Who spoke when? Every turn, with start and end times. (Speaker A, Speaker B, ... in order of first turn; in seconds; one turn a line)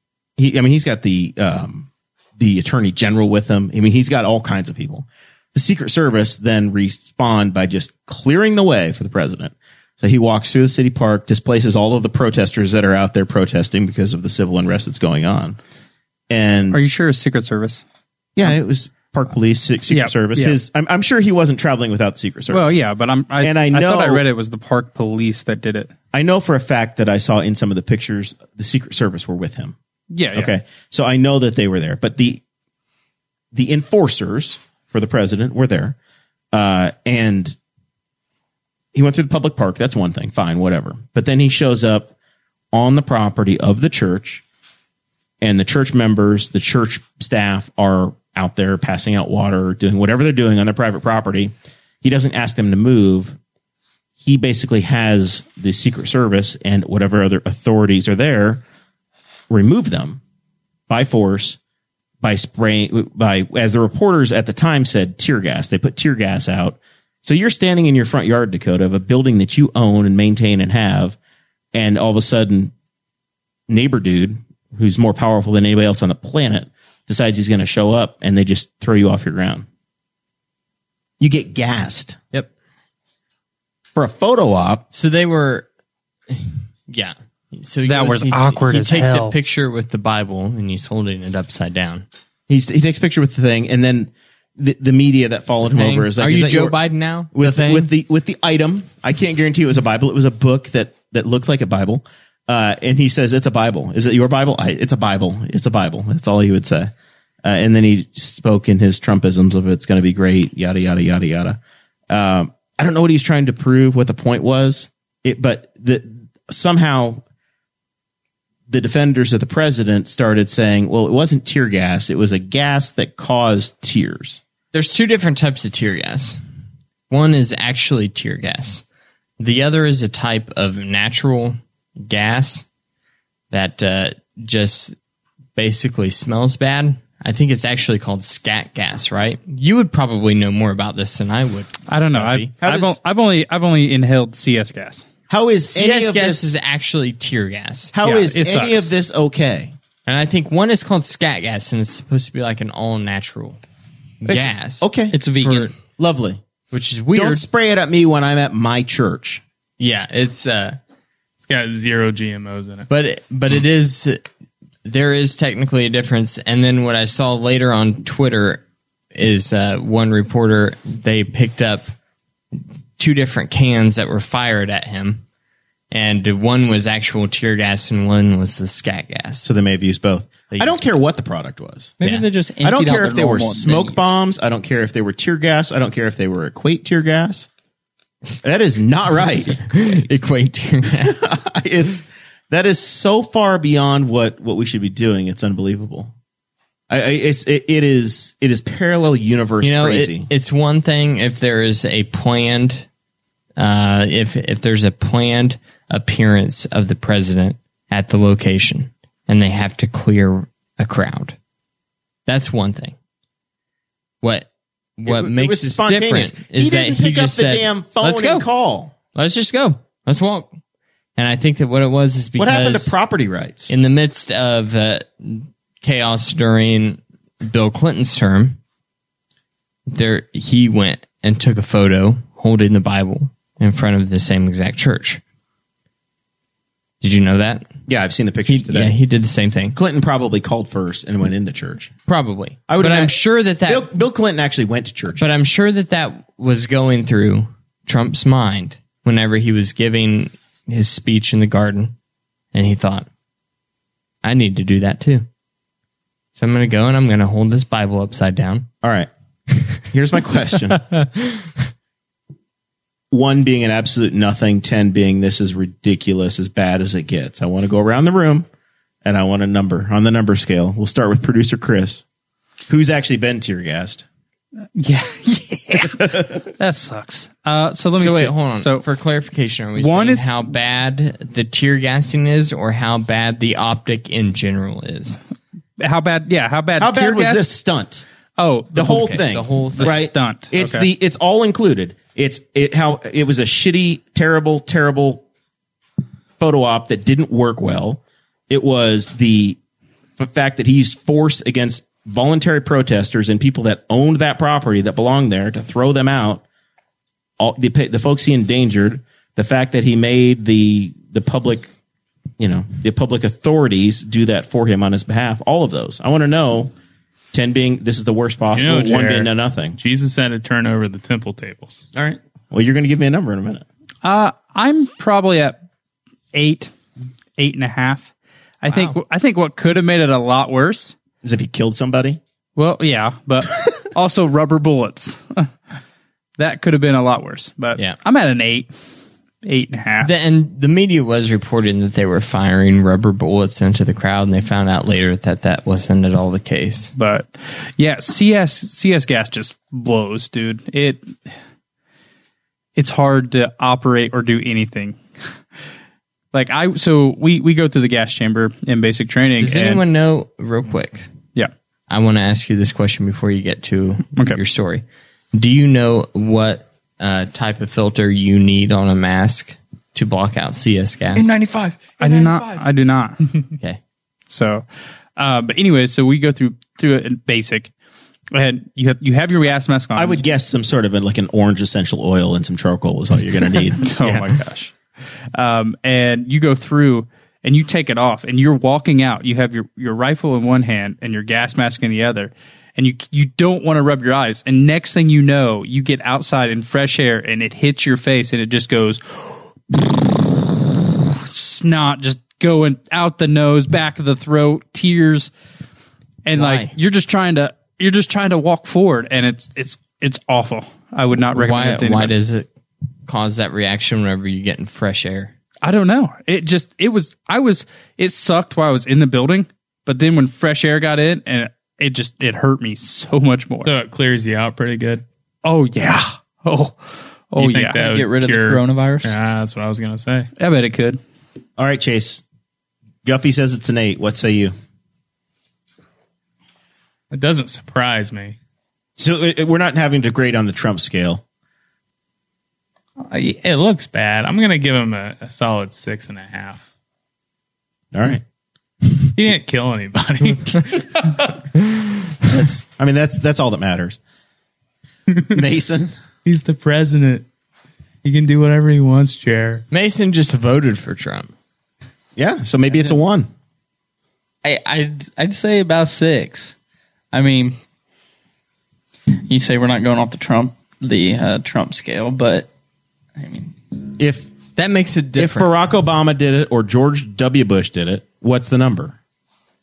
Speaker A: 0.4-15.6
Speaker A: 16.3-16.8
Speaker B: 16.7-17.8
Speaker A: 18.4-22.8
Speaker B: 19.9-20.6
Speaker B: 22.5-25.9
Speaker A: 23.4-24.2
Speaker A: 26.1-29.8
Speaker B: 30.1-30.5
Speaker A: 30.3-32.4
Speaker A: 33.5-36.0
Speaker A: 36.5-37.5
Speaker A: 38.9-42.1
Speaker A: 42.7-44.4
Speaker A: 45.4-53.4
Speaker A: 54.2-58.6
Speaker A: 59.5-60.2
Speaker A: 60.9-61.6
Speaker A: 62.2-71.2
Speaker A: 71.7-72.7
Speaker A: 73.7-79.7
Speaker A: 81.2-82.2
Speaker A: 83.9-84.8
Speaker C: 84.9-85.7
Speaker C: 86.3-92.0
Speaker B: 87.8-89.3
Speaker A: 92.5-96.8
Speaker C: 95.7-97.9
Speaker A: 97.3-106.9
Speaker A: 107.4-111.6
Speaker A: 112.1-117.2
Speaker A: 118.7-124.4
Speaker C: 124.7-126.4
Speaker C: 127.1-128.8
Speaker C: 129.4-132.7
Speaker C: 133.5-134.9
Speaker C: 135.6-142.5
Speaker B: 141.9-145.1
Speaker A: 142.6-143.0
Speaker A: 145.3-146.5
Speaker C: 145.7-147.9
Speaker A: 147.9-149.7
Speaker B: 148.0-148.9
Speaker C: 150.1-153.6
Speaker C: 154.2-154.9
Speaker A: 154.2-155.2
Speaker D: 155.1-155.7
Speaker C: 155.4-155.7
Speaker A: 156.0-156.4
Speaker C: 156.7-157.4
Speaker A: 157.1-159.4
Speaker C: 159.8-160.8
Speaker E: 161.4-162.9
Speaker C: 162.9-164.2
Speaker C: 164.8-168.6
Speaker C: 169.1-171.9
Speaker C: 173.0-175.2
Speaker C: 175.9-179.5
Speaker A: 179.4-181.9
Speaker C: 180.5-180.8
Speaker D: 182.0-184.1
Speaker A: 182.6-187.5
Speaker A: 188.4-189.9
Speaker C: 189.5-191.4
Speaker A: 191.0-196.1
Speaker A: 196.9-200.3
Speaker C: 199.6-202.8
Speaker C: 203.6-211.3
Speaker C: 212.2-212.9
Speaker C: 214.2-218.5
Speaker A: 215.1-218.9
Speaker C: 219.1-220.5
Speaker C: 221.2-222.9
Speaker A: 222.4-223.7
Speaker C: 223.7-228.6
Speaker C: 229.9-235.2
Speaker C: 237.0-237.7
Speaker A: 237.9-238.9
Speaker C: 238.5-239.8
Speaker A: 239.7-241.9
Speaker C: 242.1-243.9
Speaker A: 242.7-243.1
Speaker A: 243.7-245.4
Speaker C: 245.2-251.9
Speaker C: 252.5-253.1
Speaker C: 254.2-255.3
Speaker C: 256.3-258.7
Speaker A: 258.8-259.1
Speaker A: 259.9-260.8
Speaker C: 260.8-261.5
Speaker A: 263.1-268.5
Speaker A: 269.0-272.0
Speaker A: 272.7-274.0
Speaker B: 274.8-278.8
Speaker A: 275.8-276.3
Speaker C: 277.9-285.2
Speaker B: 279.8-280.3
Speaker B: 285.8-287.5
Speaker A: 286.8-288.0
Speaker B: 288.4-289.1
Speaker A: 288.7-295.2
Speaker C: 288.8-290.0
Speaker B: 289.8-290.9
Speaker A: 296.4-299.6
Speaker A: 300.2-306.4
Speaker A: 307.4-311.7
Speaker A: 312.4-316.7
Speaker A: 317.3-319.8
Speaker E: 318.5-321.8
Speaker A: 321.9-323.6
Speaker B: 324.0-325.6
Speaker B: 326.3-326.7
Speaker B: 327.4-328.1
Speaker B: 328.6-330.9
Speaker C: 328.7-329.0
Speaker A: 331.2-332.2
Speaker B: 332.6-335.5
Speaker B: 336.4-338.7
Speaker B: 339.4-340.1
Speaker C: 340.0-346.9
Speaker B: 346.9-351.1
Speaker B: 352.8-355.0
Speaker B: 356.3-359.8
Speaker C: 359.4-361.1
Speaker C: 361.9-371.3
Speaker D: 371.1-372.6
Speaker B: 372.0-373.2
Speaker B: 374.3-377.7
Speaker B: 378.3-380.2
Speaker A: 379.9-384.3
Speaker B: 383.8-384.7
Speaker B: 385.3-400.1
Speaker B: 400.9-405.3
Speaker B: 406.2-412.1
Speaker C: 406.4-406.7
Speaker C: 411.3-412.5
Speaker C: 413.1-415.3
Speaker B: 415.6-423.7
Speaker E: 423.6-425.0
Speaker B: 425.4-427.8
Speaker E: 427.4-430.3
Speaker D: 427.7-429.1
Speaker B: 430.4-431.0
Speaker A: 431.6-432.2
Speaker A: 433.0-434.5
Speaker E: 437.1-438.4
Speaker A: 439.0-441.2
Speaker E: 443.0-446.6
Speaker A: 447.9-448.2
Speaker E: 449.1-451.0
Speaker A: 452.3-454.0
Speaker A: 455.3-455.9
Speaker E: 456.2-457.2
Speaker E: 458.0-459.6
Speaker C: 459.7-461.3
Speaker A: 462.1-463.3
Speaker D: 464.4-466.5
Speaker D: 467.1-467.6
Speaker D: 469.2-472.5
Speaker D: 473.1-473.5
Speaker A: 474.0-474.3
Speaker C: 474.6-475.5
Speaker A: 475.2-478.9